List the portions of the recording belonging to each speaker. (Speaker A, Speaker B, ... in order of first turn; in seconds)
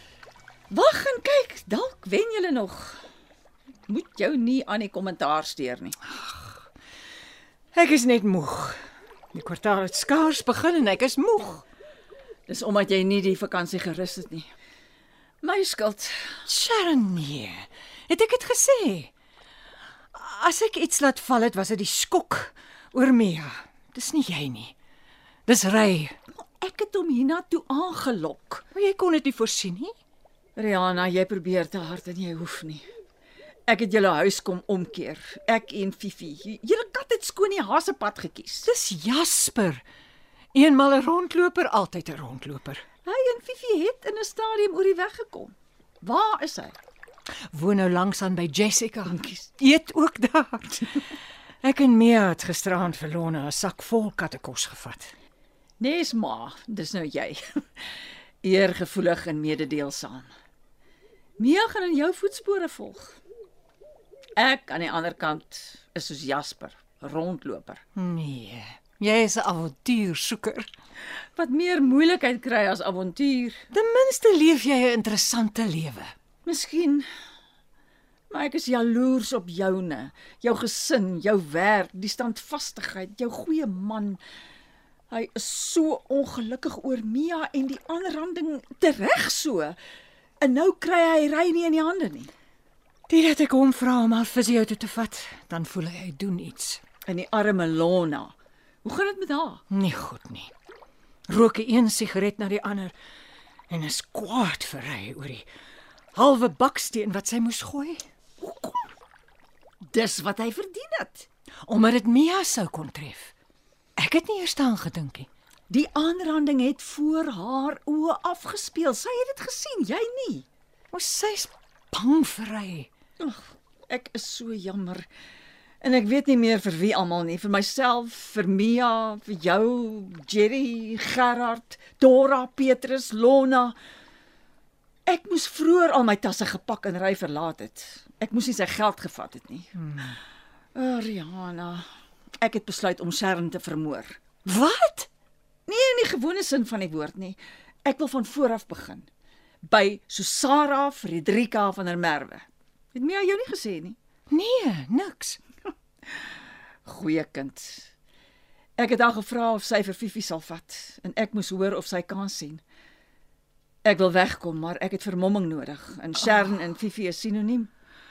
Speaker A: 0.7-3.0, 3.9-5.9, 12.5-14.5, 15.4-16.3, 26.4-28.6, 30.6-32.8, 33.7-38.7, 43.0-46.8, 49.0-49.5, 55.8-60.3, 61.4-63.1, 64.4-67.8, 71.3-73.6, 76.4-77.0, 78.3-84.2, 85.1-89.8, 90.4-92.3, 97.1-99.6, 108.4-108.9, 109.9-111.3, 115.7-120.5, 123.2-125.1, 125.8-133.8, 135.1-139.7, 140.7-141.8, 142.4-144.2, 145.7-149.1, 149.7-154.0, 156.8-157.9, 158.8-162.6, 163.8-167.7
Speaker B: 6.2-6.5, 7.7-8.8, 9.3-11.6, 16.5-19.1, 20.1-24.7, 25.5-26.1, 28.7-29.9, 38.6-39.8, 40.5-42.8, 47.5-51.0, 51.6-55.1, 68.0-70.7, 73.7-76.1, 93.1-96.8, 99.7-100.5, 101.3-102.9, 103.7-105.5, 106.1-108.0, 111.7-113.3, 114.0-115.3, 120.9-122.9, 139.8-140.2, 144.4-145.1, 154.3-155.4